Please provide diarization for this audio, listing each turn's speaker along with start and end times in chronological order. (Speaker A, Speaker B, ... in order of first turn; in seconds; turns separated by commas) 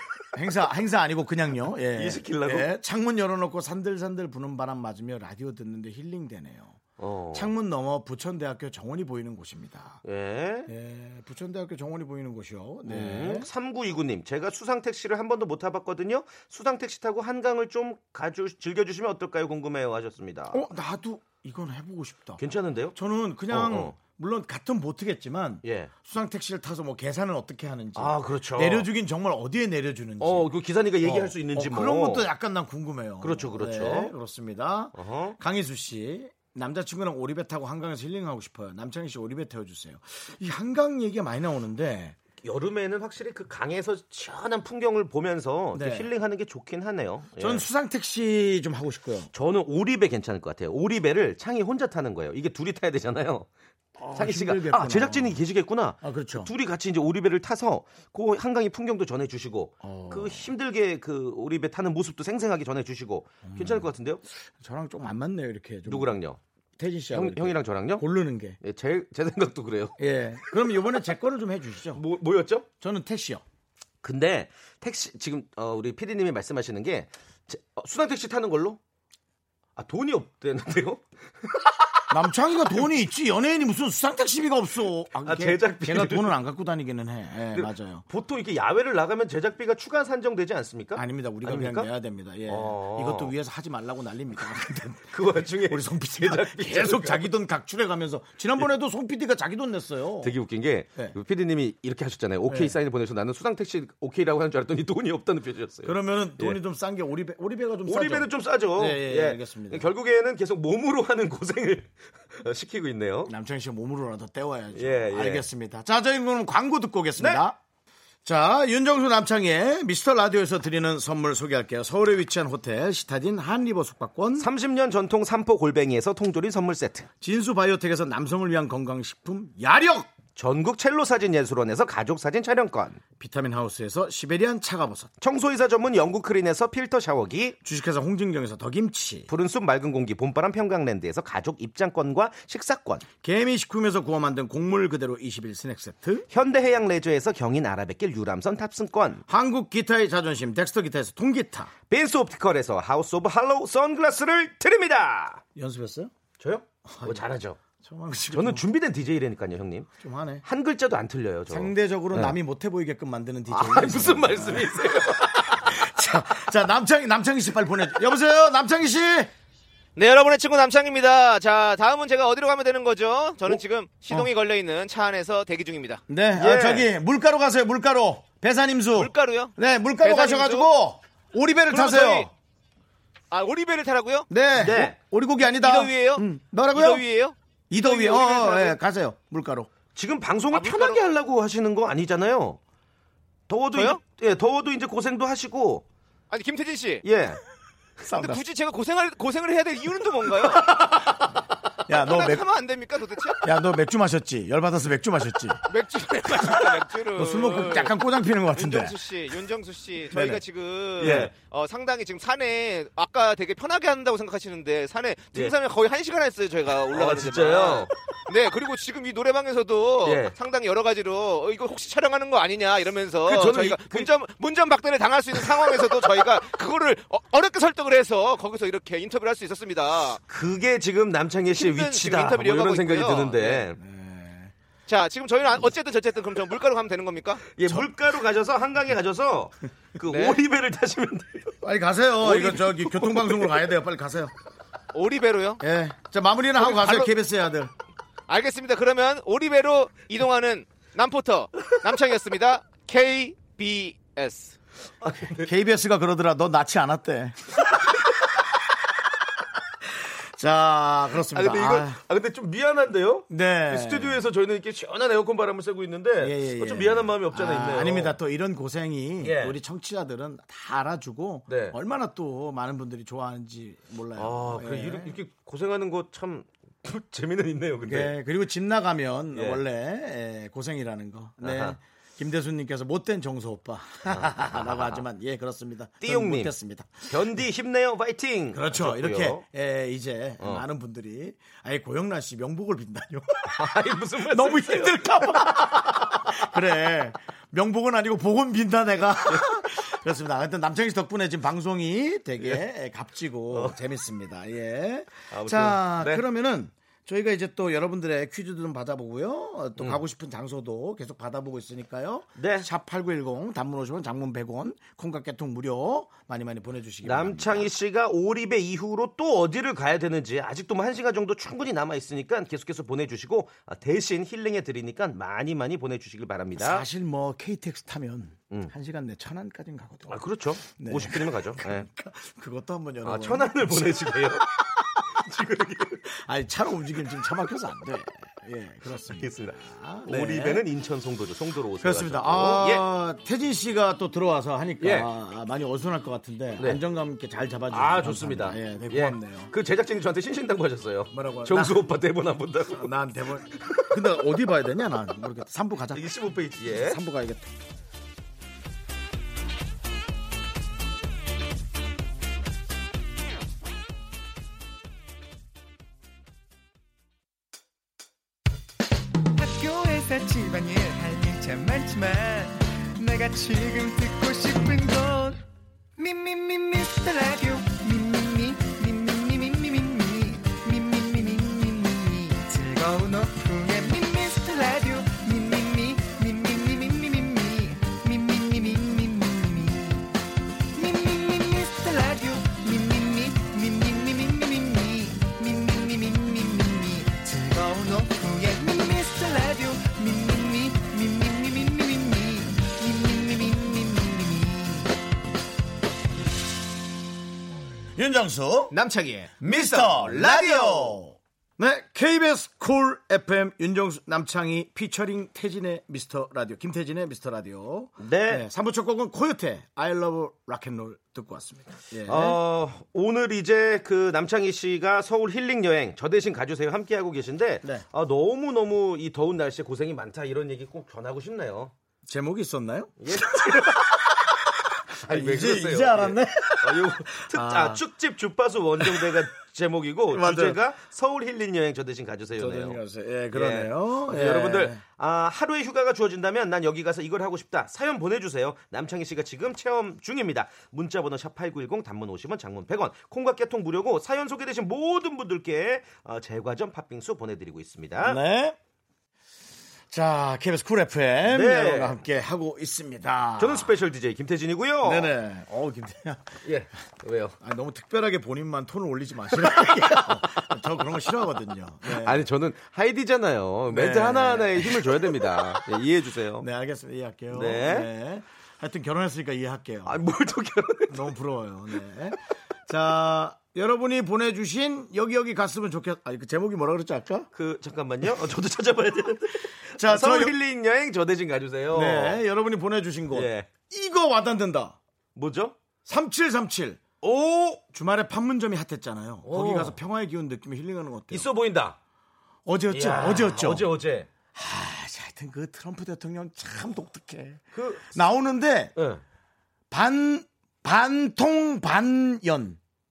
Speaker A: 0.3-6.8, Speaker B: 1.9-2.7, Speaker B: 7.0-7.5, Speaker A: 7.3-10.0, Speaker B: 10.1-10.7, Speaker A: 10.7-13.5, Speaker B: 12.8-20.6, Speaker A: 20.5-22.4, Speaker B: 22.4-23.0, Speaker A: 22.9-30.5, Speaker B: 23.5-23.9, Speaker B: 25.6-25.9, Speaker B: 28.0-28.9, Speaker B: 30.2-32.3, Speaker A: 31.0-42.2, Speaker B: 33.2-34.1, Speaker B: 35.0-35.4, Speaker B: 42.4-47.6, Speaker A: 45.7-46.1, Speaker A: 47.4-49.3, Speaker B: 49.3-53.5, Speaker A: 54.0-55.4, Speaker B: 54.1-64.2, Speaker A: 56.0-56.5, Speaker A: 59.8-60.5, Speaker A: 63.4-63.9, Speaker A: 64.5-66.2, Speaker B: 65.9-66.4, Speaker A: 66.8-68.6, Speaker B: 67.1-68.1, Speaker B: 68.6-70.0, Speaker A: 70.0-72.0, Speaker B: 72.0-72.7, Speaker A: 72.8-73.4, Speaker B: 74.0-78.8, Speaker B: 79.8-82.0, Speaker A: 82.1-88.0, Speaker B: 85.2-86.3, Speaker B: 87.5-91.9, Speaker A: 91.0-100.3, Speaker B: 92.5-93.3, Speaker B: 95.1-97.3, Speaker B: 100.2-106.6, Speaker A: 102.5-102.8, Speaker A: 105.8-109.9, Speaker B: 107.9-113.3, Speaker A: 113.3-117.6, Speaker B: 114.7-115.5, Speaker A: 118.2-124.5, Speaker B: 124.4-127.1, Speaker A: 127.2-130.1, Speaker B: 130.4-133.0, Speaker A: 133.2-135.1, Speaker B: 135.2-137.6, Speaker A: 137.6-139.3, Speaker B: 139.3-143.1, Speaker A: 143.2-146.3, Speaker B: 146.3-149.2, Speaker A: 149.3-151.7, Speaker B: 151.9-155.4, Speaker A: 155.6-156.1, Speaker B: 156.4-157.6, Speaker A: 156.9-157.2, Speaker A: 157.8-158.7, Speaker B: 158.3-159.9, Speaker A: 160.0-160.4, Speaker B: 160.4-162.3, Speaker A: 161.5-169.3, Speaker B: 163.5-165.7, Speaker C: 170.0-176.0, Speaker A: 176.1-182.3, Speaker B: 176.4-176.9, Speaker C: 179.0-180.7, Speaker C: 181.7-182.3, Speaker C: 183.3-184.3, Speaker A: 184.3-187.0, Speaker B: 184.6-184.9, Speaker C: 185.5-188.8, Speaker A: 187.7-189.7, Speaker B: 189.9-192.6, Speaker C: 190.5-191.0, Speaker B: 193.5-195.8, Speaker C: 193.7-194.0, Speaker C: 196.3-197.1, Speaker B: 197.0-197.4, Speaker A: 198.0-198.4, Speaker C: 198.1-200.7, Speaker A: 201.9-202.4, Speaker C: 202.0-203.4, Speaker A: 203.4-205.6, Speaker C: 205.7-207.9, Speaker A: 207.1-209.0, Speaker C: 208.5-230.2, Speaker A: 210.1-210.4, Speaker A: 211.0-211.3, Speaker B: 211.0-211.3, Speaker B: 216.9-217.9, Speaker B: 220.1-220.3, Speaker B: 223.3-224.1, Speaker B: 230.3-233.8, Speaker C: 231.5-233.6, Speaker A: 233.7-234.5, Speaker C: 234.9-237.4, Speaker B: 237.6-241.6, Speaker A: 237.7-237.9, Speaker C: 240.1-240.4, Speaker A: 241.6-244.3, Speaker B: 242.2-243.7, Speaker C: 244.9-245.6, Speaker A: 245.6-247.7, Speaker C: 246.6-247.1, Speaker C: 248.3-254.6, Speaker B: 255.0-255.5, Speaker A: 255.4-257.6, Speaker A: 259.9-262.0, Speaker B: 261.3-268.2, Speaker A: 263.3-264.2, Speaker A: 266.2-275.1, Speaker B: 269.2-269.6, Speaker B: 271.5-271.8, Speaker B: 274.2-278.1, Speaker A: 277.8-287.4, Speaker B: 279.3-279.6, Speaker B: 281.4-281.8, Speaker B: 284.5-285.0, Speaker B: 286.0-286.5, Speaker B: 287.1-289.4, Speaker A: 288.5-293.6, Speaker B: 293.5-296.3, Speaker A: 294.3-317.7, Speaker B: 303.5-303.8, Speaker B: 305.3-306.2, Speaker B: 312.4-312.7, Speaker B: 317.0-326.9, Speaker A: 326.6-335.1, Speaker B: 330.1-331.9, Speaker B: 333.0-334.5, Speaker B: 335.2-336.1, Speaker A: 336.1-340.7, Speaker B: 339.1-342.9, Speaker A: 341.8-349.5, Speaker B: 344.8-345.1, Speaker B: 347.7-352.9, Speaker A: 351.1-351.9, Speaker A: 352.7-357.5, Speaker B: 353.6-353.9, Speaker B: 355.9-357.0, Speaker D: 369.4-375.4, Speaker D: 376.0-390.1, Speaker D: 390.7-404.9, Speaker A: 408.0-408.8, Speaker C: 408.7-409.5, Speaker A: 409.4-422.4, Speaker B: 409.6-410.8, Speaker B: 418.0-418.4, Speaker B: 422.1-431.7, Speaker A: 432.1-437.8, Speaker B: 433.0-433.8, Speaker B: 435.0-442.8, Speaker A: 438.8-439.3, Speaker A: 440.1-440.6, Speaker A: 442.4-444.8, Speaker B: 443.3-458.2, Speaker A: 458.0-458.6, Speaker A: 459.9-463.7, Speaker B: 461.3-462.0, Speaker B: 463.4-465.1, Speaker A: 464.8-466.4, Speaker B: 466.4-467.4, Speaker A: 467.4-472.2, Speaker B: 469.4-470.5, Speaker B: 471.9-476.5, Speaker A: 473.7-475.6, Speaker A: 476.4-480.0, Speaker B: 477.3-477.9, Speaker B: 479.9-481.1, Speaker A: 480.9-487.3, Speaker B: 487.3-492.2, Speaker A: 489.8-490.3, Speaker A: 491.7-494.8, Speaker B: 493.1-493.5, Speaker B: 495.2-495.6, Speaker A: 495.9-496.8, Speaker B: 497.0-497.6, Speaker A: 497.7-501.3, Speaker B: 499.3-499.8, Speaker B: 501.1-501.8, Speaker A: 502.5-503.7, Speaker B: 502.7-504.1, Speaker A: 504.3-508.7, Speaker B: 507.5-507.9, Speaker B: 508.8-509.0, Speaker A: 509.7-512.6